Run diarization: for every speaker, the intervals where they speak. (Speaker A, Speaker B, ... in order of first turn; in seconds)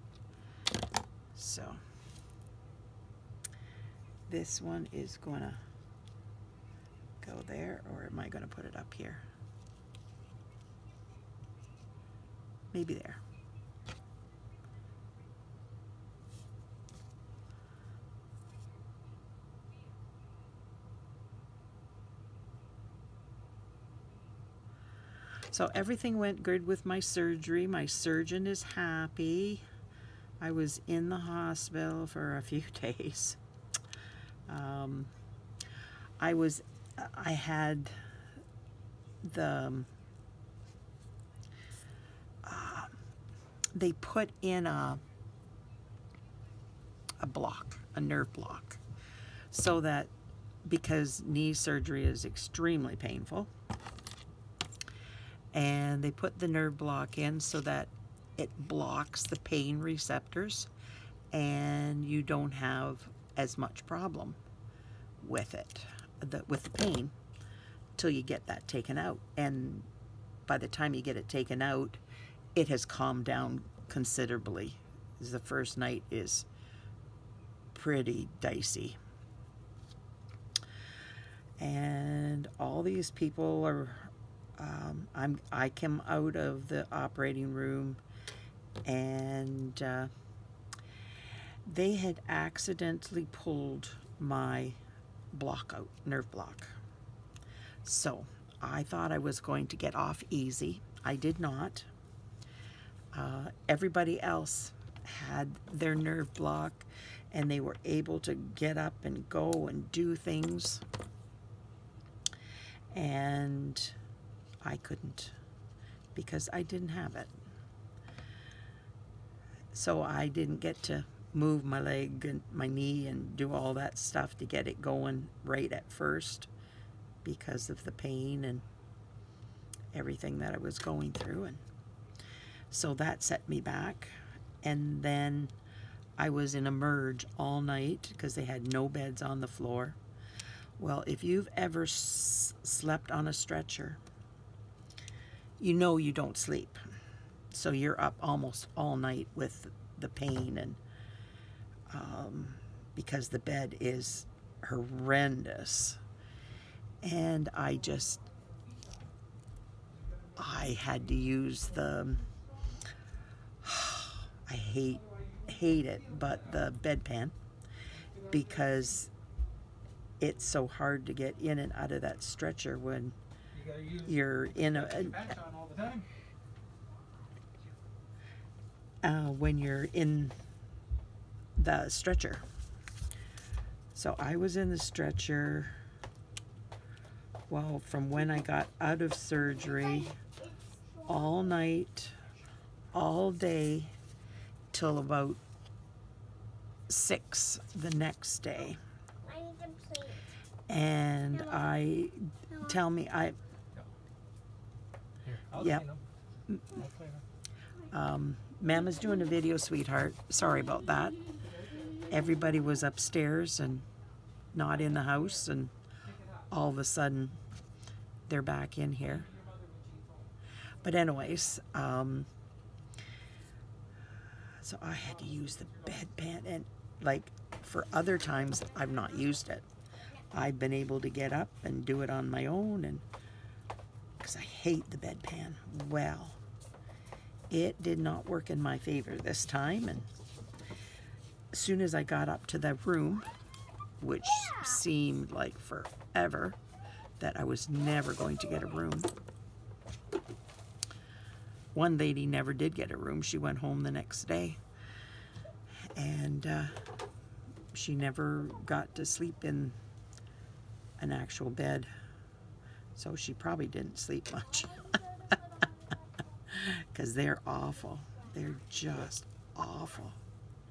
Speaker A: 1.4-1.8, 4.3-5.6, 7.2-9.2, 12.7-13.2, 25.5-29.6, 30.4-33.4, 34.5-35.1, 36.2-38.0, 39.2-39.9, 42.4-43.0, 43.8-45.0, 47.2-48.8, 49.5-50.1, 50.6-53.5, 55.5-60.7, 61.3-64.4, 65.2-67.1, 68.0-69.9, 70.5-72.0, 72.5-76.5, 77.7-79.0, 81.6-88.0, 88.8-90.1, 91.6-94.8, 95.3-96.8, 97.8-101.9, 103.1-110.8, 112.9-114.0, 114.6-115.3, 116.1-117.3, 119.7-126.5, 127.2-128.6, 129.9-131.6, 132.7-135.5, 136.2-140.0, 140.8-144.0, 145.6-146.8, 147.5-150.8, 151.9-156.0, 157.0-158.2, 160.4-162.3, 163.6-167.3, 168.3-169.1, 170.2-173.1, 173.9-175.4, 179.0-180.3, 181.6-182.4, 183.9-185.8, 187.5-190.2, 191.1-192.1, 192.9-193.9, 194.7-195.4, 196.9-198.8, 200.7-203.4, 205.5-205.9, 206.5-206.9, 207.9-211.3, 212.1-213.8, 214.5-215.7, 216.5-217.4, 218.3-219.3, 220.8-222.3, 224.6-229.6, 230.3-233.0, 234.2-236.4, 237.5-240.1, 241.5-243.3, 244.0-246.6, 247.2-249.1, 251.7-254.6, 255.9-256.8, 257.7-259.8, 261.0-261.9, 263.0-265.0, 266.5-270.2
Speaker B: 158.2-159.1, 159.9-162.5, 168.1-168.9, 173.6-174.0, 175.3-176.0, 205.4-206.0, 211.6-212.1, 219.2-220.3
Speaker C: 189.4-191.8, 199.2-200.3, 201.3-201.7, 202.5-202.8, 228.2-229.3, 264.6-266.2, 268.1-268.6